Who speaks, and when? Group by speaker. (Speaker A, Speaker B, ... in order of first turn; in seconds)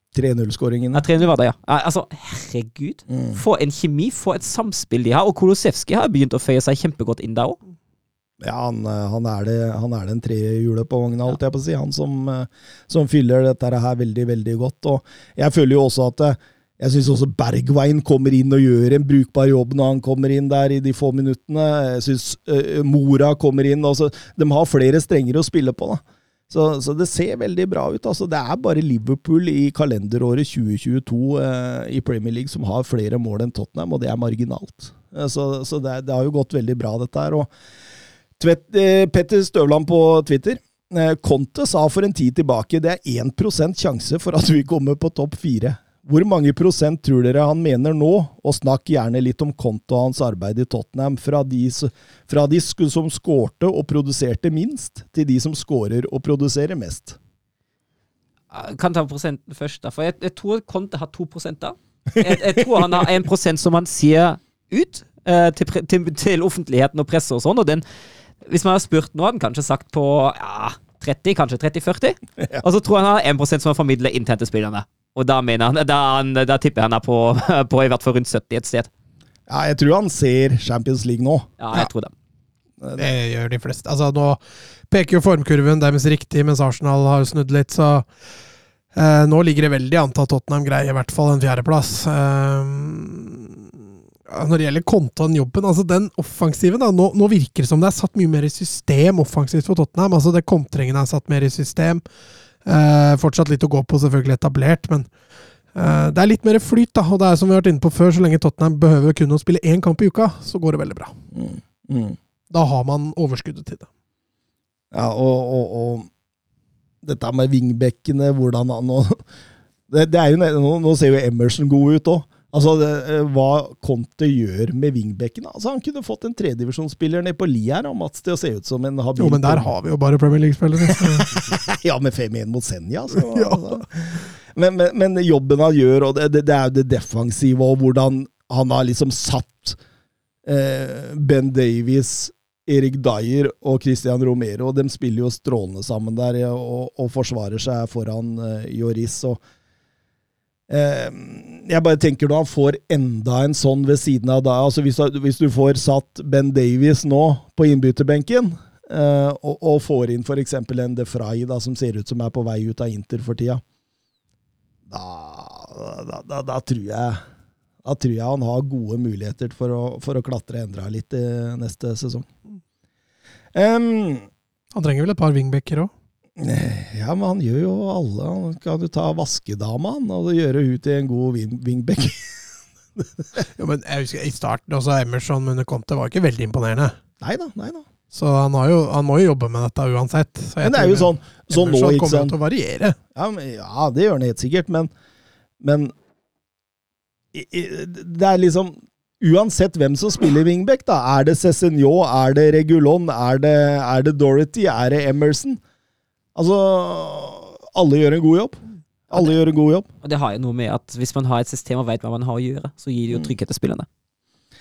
Speaker A: 0.1-1.1, 3.1-3.4, 8.4-37.5, 38.4-57.2, 62.2-62.8, 79.5-81.5, 82.8-83.1, 111.3-112.2, 114.9-116.1, 117.0-119.2, 119.9-129.7, 130.9-139.8, 140.4-149.4, 150.7-163.6, 164.9-167.2, 167.8-172.3, 173.5-174.3, 176.4-183.4, 187.2-187.8, 190.6-192.4, 193.1-194.9, 195.6-195.9, 197.3-205.6, 206.3-209.9
Speaker B: 0.9-7.6, 58.5-67.8, 68.4-78.9, 81.6-82.1, 210.0-213.8
Speaker C: 83.0-84.4, 84.9-88.0, 88.9-93.7, 94.3-102.0, 102.6-105.1, 105.7-111.1, 112.5-113.9, 129.2-131.5, 133.2-133.8, 174.7-175.9, 183.6-186.9, 188.1-192.9